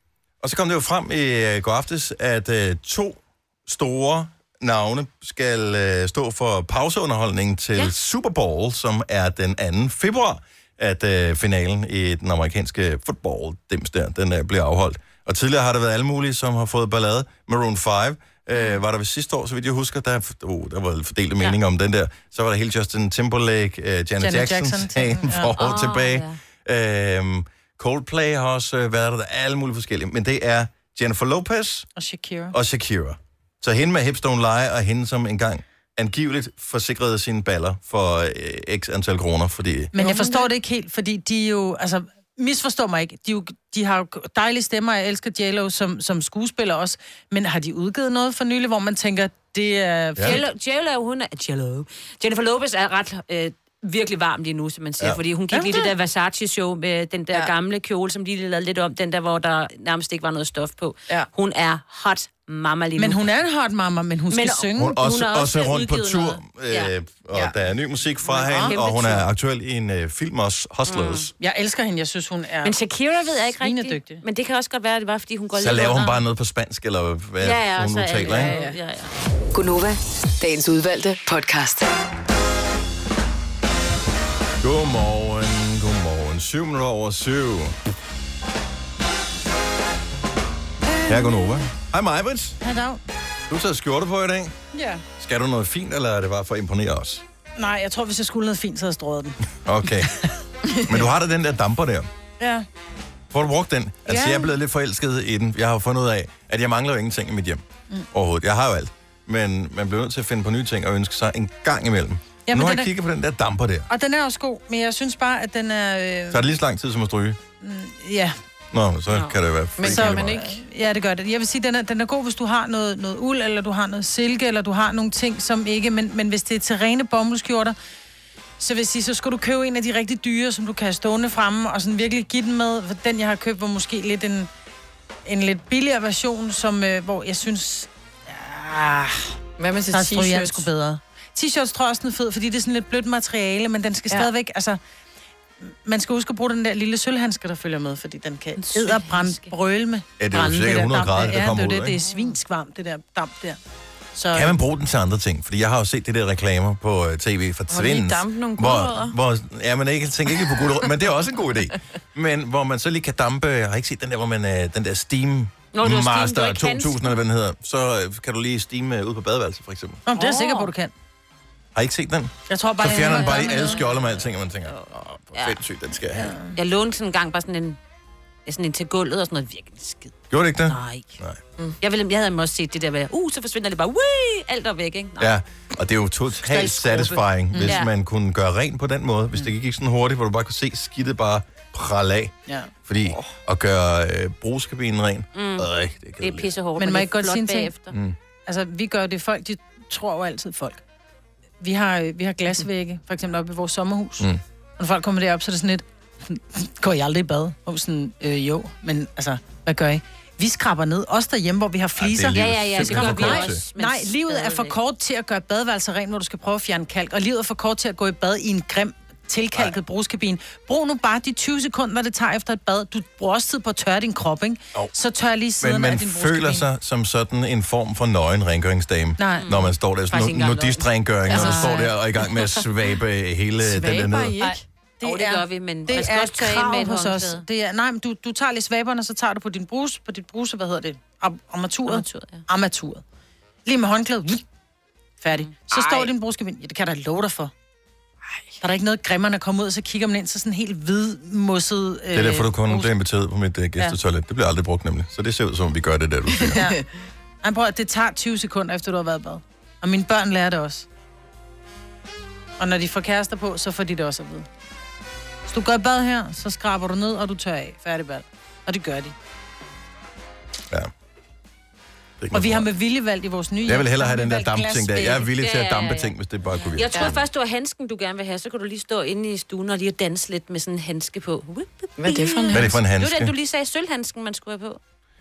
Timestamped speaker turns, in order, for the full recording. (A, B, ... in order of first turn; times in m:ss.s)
0:00.4-0:31.9 A
0:18.5-0:18.8 B
0:24.2-0:25.5 C
0:25.6-0:26.4 B
0:32.0-0:32.5 C
0:32.5-0:39.9 A
0:39.9-0:50.4 C
0:40.0-0:40.4 D
0:50.2-1:03.2 B
0:55.5-0:55.9 C
1:03.0-1:05.0 C
1:04.3-1:06.9 B
1:04.7-1:11.3 A
1:07.3-1:07.6 D
1:08.3-1:08.7 C
1:08.5-1:09.2 B
1:10.9-1:11.3 B
1:11.4-1:12.7 C
1:12.6-1:16.2 B
1:13.6-1:14.2 C
1:15.5-1:18.5 A
1:17.4-1:19.1 B
1:18.3-1:18.8 D
1:19.5-1:21.9 E
1:24.6-1:27.8 A
1:31.1-1:32.6 A
1:32.6-1:33.0 C
1:33.5-1:34.5 A
1:34.7-1:35.0 C
1:35.2-1:37.2 A
1:37.6-1:39.4 C
1:39.6-1:40.1 A
1:40.8-1:42.1 A
1:42.4-1:42.6 C
1:43.3-1:47.6 A
1:44.0-1:44.5 C
1:48.1-1:53.9 A
1:52.5-1:52.9 C
1:53.9-1:56.4 C
1:56.3-1:57.4 A
1:57.6-1:58.4 C
1:58.7-2:00.4 A
1:59.1-1:59.3 B
1:59.8-2:00.6 D
1:59.8-2:07.8 C
2:08.6-2:14.5 C
2:15.2-2:19.4 C
2:19.6-2:20.7 D
2:19.9-2:24.8 C
2:25.6-2:33.6 C
2:28.6-2:29.5 B
2:30.2-2:32.0 A
2:32.0-2:32.4 B
2:34.1-2:34.5 C
2:34.3-2:50.0 A
2:37.7-2:39.2 D
2:40.3-2:40.9 D
2:45.7-2:47.2 B
2:50.0-2:50.9 C
2:50.2-2:50.7 B
2:51.7-2:56.4 A
2:52.5-2:53.8 C
2:53.0-2:55.6 B
2:56.2-2:56.5 C
2:56.5-2:57.8 B
2:58.4-3:00.1 B
3:00.3-3:01.4 A
3:00.7-3:01.2 B
3:01.8-3:05.3 B
3:05.2-3:12.3 A
3:06.4-3:07.9 B
3:07.5-3:07.8 C
3:12.5-3:13.2 C
3:12.8-3:16.5 A
3:15.3-3:15.7 B
3:16.2-3:17.9 B
3:16.8-3:17.7 C
3:17.9-3:18.2 A
3:18.4-3:20.8 C
3:21.6-3:46.7 C
3:32.0-3:33.6 A
3:32.3-3:34.8 B
3:45.6-3:54.4 A
3:49.2-3:49.5 C
3:49.3-3:51.5 B
3:51.3-3:51.8 D
3:51.3-3:51.9 C
3:53.6-3:54.6 D
3:55.0-4:03.0 C
3:55.0-3:57.4 B
4:01.9-4:02.4 B
4:03.6-4:04.4 C
4:05.2-4:07.5 C
4:05.4-4:06.1 B
4:08.6-4:12.9 C
4:12.1-4:16.6 A
4:16.4-4:16.8 D
4:16.5-4:16.8 C
4:17.4-4:20.9 C
4:22.6-4:24.5 C
4:25.5-4:29.1 C
4:32.2-4:32.7 A
4:32.3-4:35.3 C
4:33.7-4:37.2 A
4:35.4-4:44.8 B
4:42.0-4:42.8 D
4:42.5-4:43.3 A